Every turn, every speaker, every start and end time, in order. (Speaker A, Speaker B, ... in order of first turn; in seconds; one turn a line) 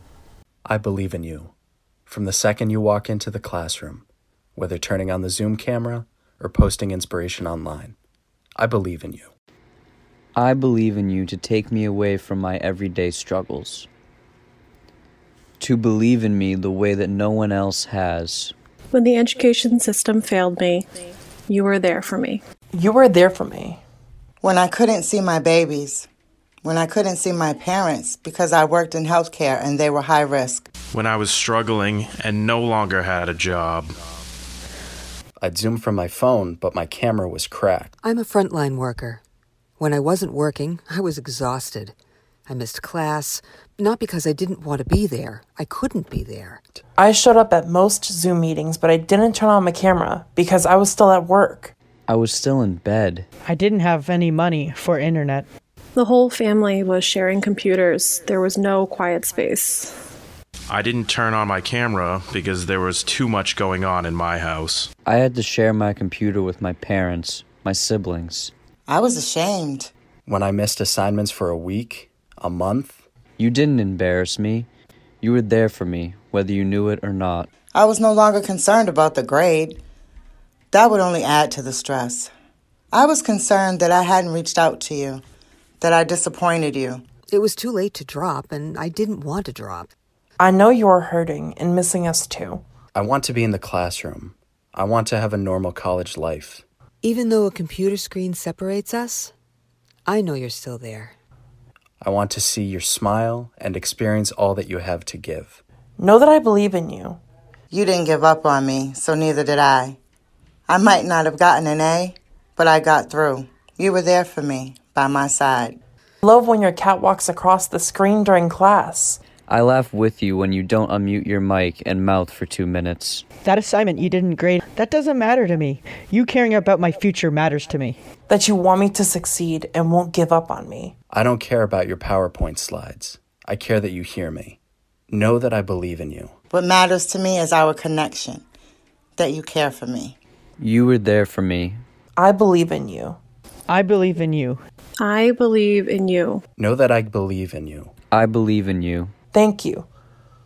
Speaker A: 0.7-1.5
Speaker A: 2.1-8.0
Speaker A: 8.6-9.3
Speaker B: 10.3-13.9
Speaker B: 15.6-18.5
Speaker C: 18.9-22.4
Speaker D: 22.7-23.8
Speaker E: 24.4-26.1
Speaker E: 26.6-30.7
Speaker F: 30.9-33.9
Speaker A: 35.4-37.9
Speaker G: 38.0-39.2
Speaker G: 39.8-42.0
Speaker G: 42.5-46.6
Speaker D: 47.0-51.7
Speaker B: 52.1-53.3
Speaker H: 53.5-55.4
Speaker C: 56.0-59.9
Speaker F: 60.7-64.9
Speaker B: 65.0-68.5
Speaker E: 68.9-69.9
Speaker A: 70.3-73.0
Speaker B: 73.4-74.7
Speaker B: 75.2-77.5
Speaker E: 77.7-79.8
Speaker E: 80.7-82.3
Speaker E: 82.9-85.2
Speaker E: 85.8-87.0
Speaker G: 87.3-89.9
Speaker D: 90.4-92.6
Speaker A: 93.0-96.7
Speaker G: 97.0-99.3
Speaker G: 100.1-101.2
Speaker A: 102.0-105.6
Speaker D: 106.0-107.2
Speaker E: 107.7-110.0
Speaker E: 110.7-115.8
Speaker D: 116.2-119.2
Speaker B: 119.5-123.3
Speaker H: 123.5-127.9
Speaker D: 128.3-130.9
Speaker A: 131.1-134.6
Speaker A: 135.1-136.3
Speaker E: 136.5-138.4
Speaker E: 139.2-140.2
Speaker B: 140.6-141.8
Speaker D: 142.2-143.2
Speaker H: 143.7-144.6
Speaker C: 145.0-146.4
Speaker A: 146.6-147.9
Speaker B: 148.1-149.1
Speaker D: 149.3-149.9